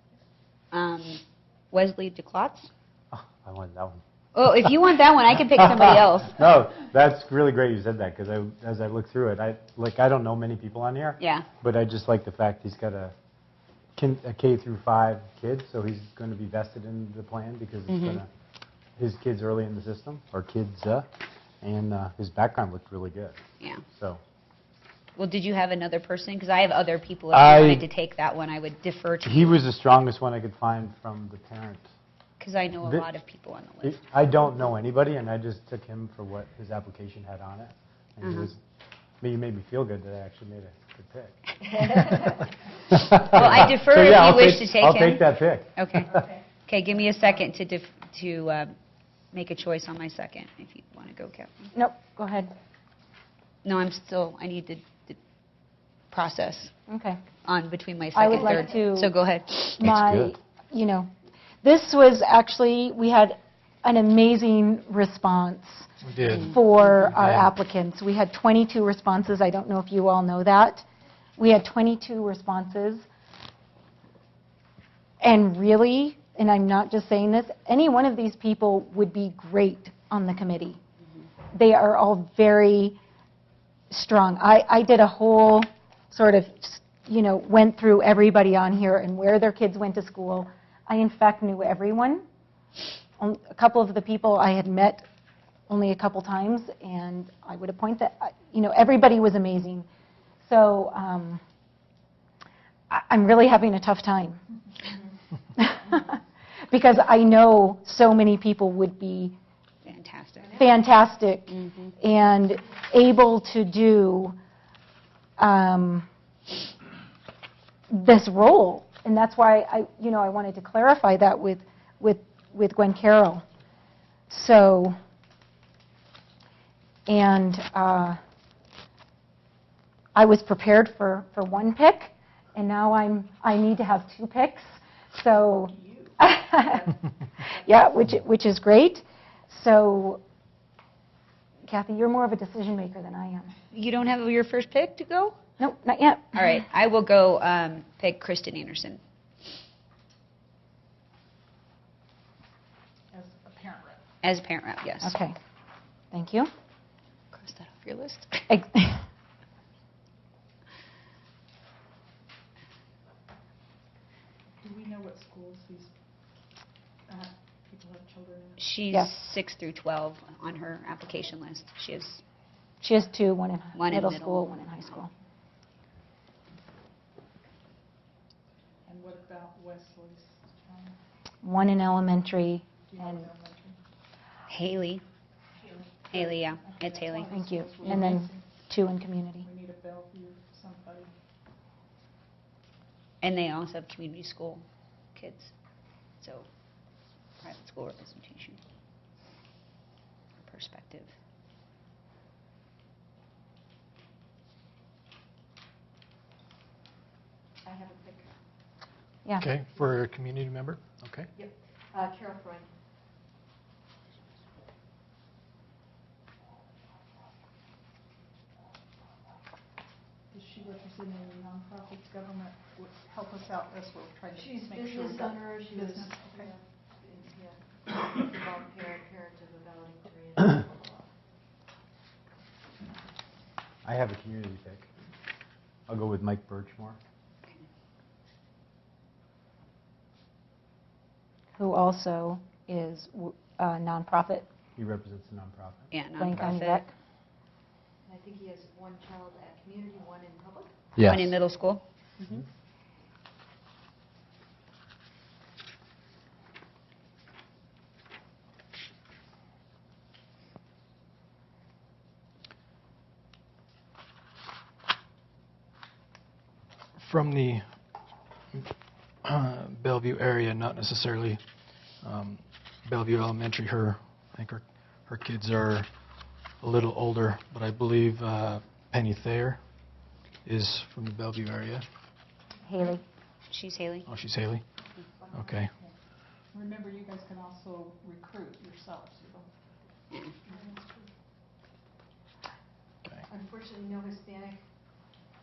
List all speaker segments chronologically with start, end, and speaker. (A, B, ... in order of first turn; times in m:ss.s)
0:00.7-0:02.7 A
0:03.1-0:04.0 B
0:04.3-0:06.4 A
0:06.3-0:13.1 B
0:11.2-0:11.5 A
0:14.0-0:18.3 B
0:17.9-0:18.2 A
0:19.0-0:21.1 B
0:21.6-0:23.4 B
0:23.9-0:24.2 B
0:25.2-0:29.6 A
0:27.3-0:27.8 B
0:29.2-0:31.9 B
0:32.4-0:34.0 A
0:33.8-0:38.6 B
0:38.2-0:38.5 A
0:39.2-0:42.3 B
0:42.9-0:46.2 B
0:43.2-0:46.1 A
0:46.6-0:48.7 A
0:49.3-0:51.7 A
0:51.7-0:52.5 C
0:53.6-0:55.2 A
0:56.1-0:56.7 A
0:56.9-0:57.2 C
0:57.4-0:59.9 A
0:58.1-0:59.1 C
0:59.8-1:01.1 C
1:01.6-1:10.8 C
1:06.0-1:07.5 D
1:11.4-1:13.0 C
1:15.2-1:20.8 C
1:21.5-1:23.0 C
1:23.9-1:32.2 C
1:33.2-1:35.0 C
1:35.7-1:39.8 C
1:40.4-1:41.4 C
1:42.9-1:44.4 C
1:45.5-1:49.3 C
1:49.8-1:50.5 A
1:50.5-1:54.4 C
1:51.5-1:51.9 A
1:55.4-1:56.0 C
1:57.9-2:03.4 C
2:04.3-2:04.9 C
2:07.1-2:08.2 C
2:10.1-2:20.2 C
2:21.7-2:23.5 C
2:23.7-2:25.4 A
2:25.6-2:26.3 C
2:26.3-2:29.0 A
2:33.1-2:34.0 E
2:34.2-2:35.1 A
2:35.0-2:35.4 C
2:36.1-2:36.5 C
2:37.3-2:38.5 A
2:38.5-2:39.0 C
2:44.6-2:45.9 E
2:47.1-2:48.6 E
2:48.6-2:52.2 A
2:52.8-2:55.1 C
2:53.7-2:54.6 A
2:58.8-3:01.0 E
3:01.4-3:03.3 C
3:02.8-3:03.8 E
3:04.5-3:05.0 A
3:05.6-3:08.4 E
3:06.1-3:07.9 A
3:07.3-3:09.5 C
3:09.4-3:11.1 E
3:13.2-3:15.5 A
3:16.2-3:16.5 A
3:17.4-3:18.6 A
3:20.4-3:21.1 A
3:29.4-3:30.8 D
3:31.0-3:31.3 B
3:40.3-3:46.5 E
3:47.2-3:47.5 F
3:48.0-3:50.6 F
3:53.8-3:54.9 B
3:55.9-3:57.0 B
4:01.6-4:04.5 C
4:04.8-4:05.9 B
4:05.9-4:06.8 A
4:06.2-4:06.9 C
4:08.5-4:10.6 F
4:11.0-4:11.8 A
4:27.0-4:27.6 D
4:29.2-4:31.4 D
4:32.0-4:35.9 D
4:36.6-4:39.6 D
4:40.4-4:41.8 D
4:42.6-4:43.0 C
4:43.5-4:44.1 A
4:44.0-4:44.6 D
4:45.3-4:45.7 D
4:46.5-4:49.5 E
4:50.4-4:51.1 E
4:53.3-4:54.5 F